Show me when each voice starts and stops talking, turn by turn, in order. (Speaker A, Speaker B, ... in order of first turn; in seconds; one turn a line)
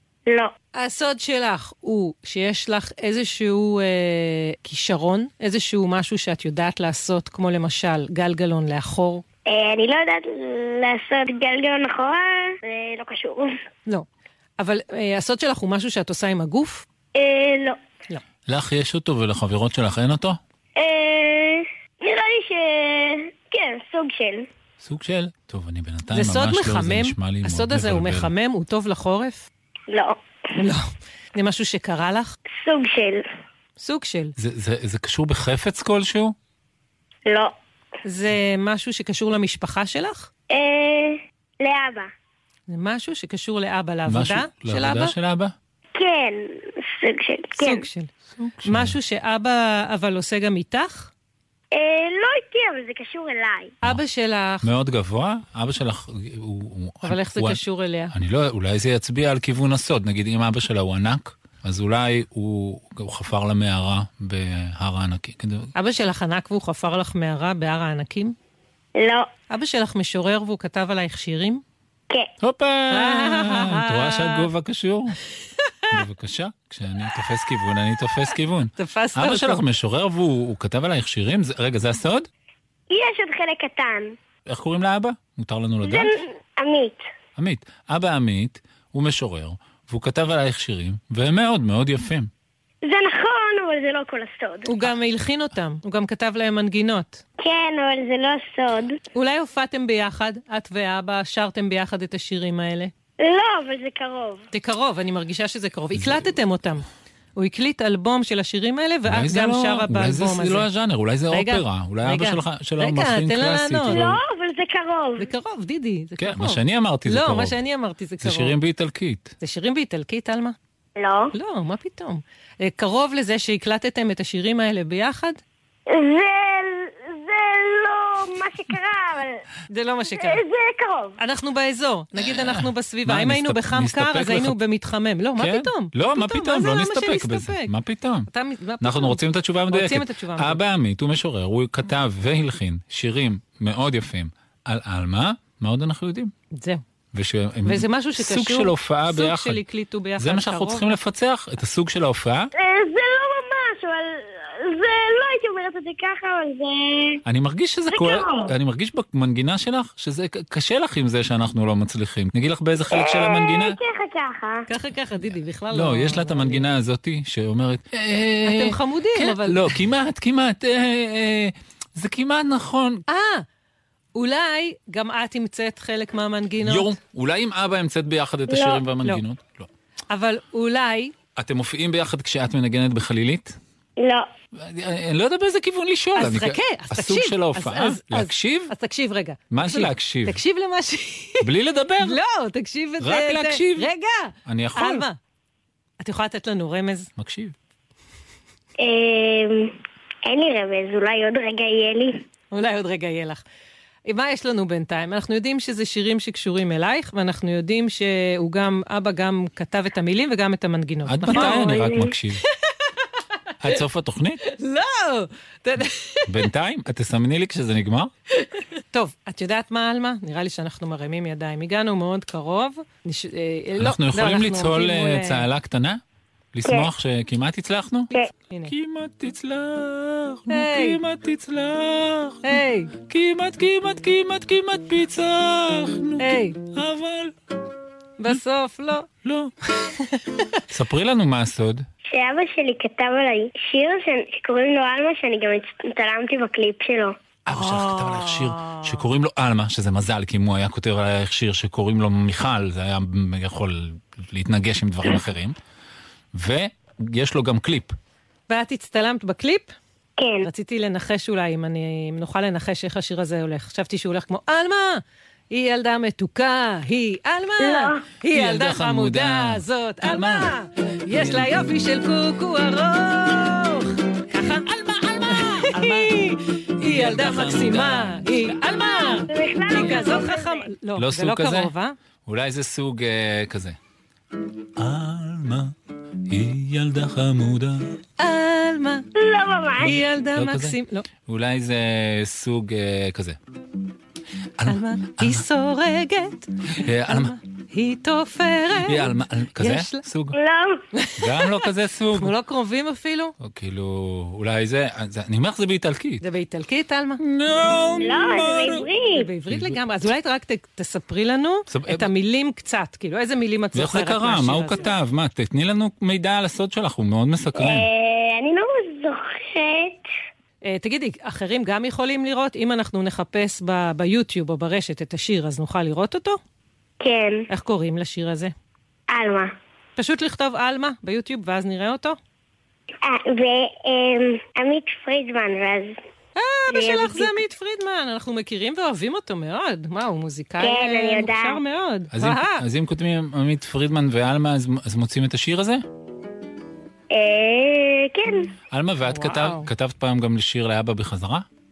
Speaker A: 0.3-0.5
Speaker B: 0.8-9.2
Speaker A: 9.5-13.6
Speaker B: 14.6-16.8
Speaker A: 17.1-17.8
Speaker C: 18.5-20.4
Speaker A: 20.8-24.5
Speaker C: 24.8-28.3
Speaker B: 26.1-29.5
Speaker A: 29.9-30.2
Speaker B: 30.6-32.4
Speaker A: 32.6-33.2
Speaker B: 33.8-34.3
Speaker C: 34.4-36.4
Speaker A: 37.3-37.5
Speaker B: 38.0-40.3
Speaker A: 40.5-42.1
Speaker B: 42.7-45.1
Speaker C: 44.1-45.5
Speaker A: 46.0-47.9
Speaker B: 47.6-48.1
Speaker C: 48.4-49.0
Speaker B: 48.6-51.1
Speaker A: 51.7-53.8
Speaker B: 53.8-54.6
Speaker C: 54.6-57.6
Speaker B: 57.0-58.1
Speaker C: 58.1-65.7
Speaker B: 65.8-68.3
Speaker A: 69.0-69.3
Speaker B: 69.5-71.6
Speaker C: 72.4-75.2
Speaker B: 72.9-74.5
Speaker C: 75.9-82.3
Speaker B: 78.8-79.6
Speaker A: 82.9-84.2
Speaker C: 84.5-86.1
Speaker A: 85.8-87.0
Speaker C: 87.4-92.3
Speaker A: 92.8-94.7
Speaker B: 94.7-97.2
Speaker A: 97.4-99.0
Speaker B: 99.1-102.9
Speaker A: 103.2-104.5
Speaker B: 104.5-106.8
Speaker C: 106.0-106.2
Speaker B: 107.4-110.7
Speaker C: 109.1-114.2
Speaker B: 111.3-114.0
Speaker A: 113.9-115.3
Speaker B: 115.2-118.6
Speaker C: 116.2-117.6
Speaker C: 118.2-119.3
Speaker B: 119.4-120.6
Speaker A: 121.0-121.3
Speaker B: 121.3-125.4
Speaker A: 125.9-129.4
Speaker B: 129.7-130.4
Speaker A: 130.1-131.2
Speaker B: 131.2-137.7
Speaker C: 132.2-134.6
Speaker C: 135.4-138.3
Speaker B: 138.3-140.6
Speaker C: 138.8-146.3
Speaker B: 146.5-146.8
Speaker C: 147.1-149.6
Speaker B: 147.6-150.9
Speaker C: 150.2-152.5
Speaker A: 152.6-157.2
Speaker C: 157.3-163.8
Speaker A: 157.9-158.5
Speaker A: 162.9-164.6
Speaker B: 164.7-166.7
Speaker C: 165.7-173.0
Speaker B: 168.5-169.7
Speaker B: 173.1-173.4
Speaker B: 174.1-176.9
Speaker C: 176.6-179.7
Speaker A: 178.5-178.8
Speaker B: 180.1-181.1
Speaker C: 181.4-183.6
Speaker A: 184.0-184.3
Speaker C: 184.6-188.7
Speaker B: 186.2-191.4
Speaker C: 189.5-190.4
Speaker C: 191.4-192.2
Speaker B: 192.0-195.2
Speaker C: 193.0-193.9
Speaker C: 194.5-195.1
Speaker B: 196.0-197.1
Speaker C: 197.2-197.5
Speaker A: 198.8-202.2
Speaker B: 202.5-203.4
Speaker B: 204.1-211.9
Speaker C: 211.1-212.4
Speaker A: 211.3-212.1
Speaker C: 213.6-214.4
Speaker B: 214.4-216.3
Speaker C: 216.3-218.1
Speaker B: 218.9-225.5
Speaker C: 223.8-226.0
Speaker C: 226.5-228.1
Speaker A: 226.6-226.9
Speaker C: 228.7-237.3
Speaker B: 230.5-231.0
Speaker B: 232.4-232.9
Speaker B: 236.2-236.6
Speaker B: 238.2-239.1
Speaker C: 239.2-239.5
Speaker C: 240.7-241.9
Speaker A: 242.1-247.2
Speaker C: 247.5-255.6
Speaker B: 247.5-249.0
Speaker C: 256.3-258.0
Speaker B: 258.5-259.7
Speaker A: 260.2-260.5
Speaker B: 260.4-282.0
Speaker A: 267.6-268.1
Speaker C: 268.3-270.5
Speaker C: 271.1-271.6
Speaker C: 274.8-276.2
Speaker C: 276.8-278.4
Speaker A: 279.1-280.6
Speaker C: 281.0-281.7
Speaker C: 282.3-283.8
Speaker C: 284.8-285.7
Speaker C: 286.3-287.9
Speaker B: 288.2-289.1
Speaker A: 289.1-290.0
Speaker B: 289.8-291.1
Speaker C: 290.4-293.4
Speaker C: 294.6-295.4
Speaker B: 294.6-300.0
Speaker C: 296.7-297.3
Speaker C: 298.9-300.3
Speaker A: 300.3-300.8
Speaker B: 300.9-301.6
Speaker C: 301.2-302.3
Speaker B: 302.1-303.4
Speaker C: 303.4-306.2
Speaker B: 306.2-307.2
Speaker C: 307.2-308.9
Speaker A: 308.0-309.3
Speaker B: 309.1-314.9
Speaker C: 309.5-309.8
Speaker C: 311.7-312.1
Speaker C: 313.7-317.9
Speaker A: 317.6-320.0
Speaker B: 320.6-326.4
Speaker A: 327.0-327.5
Speaker B: 327.5-328.5
Speaker A: 329.1-329.5
Speaker B: 330.0-332.2
Speaker A: 333.0-336.0
Speaker B: 336.4-342.6
Speaker A: 336.7-337.4
Speaker A: 340.6-341.6
Speaker C: 342.1-345.8
Speaker A: 347.1-348.5
Speaker C: 348.7-351.5
Speaker B: 349.1-349.7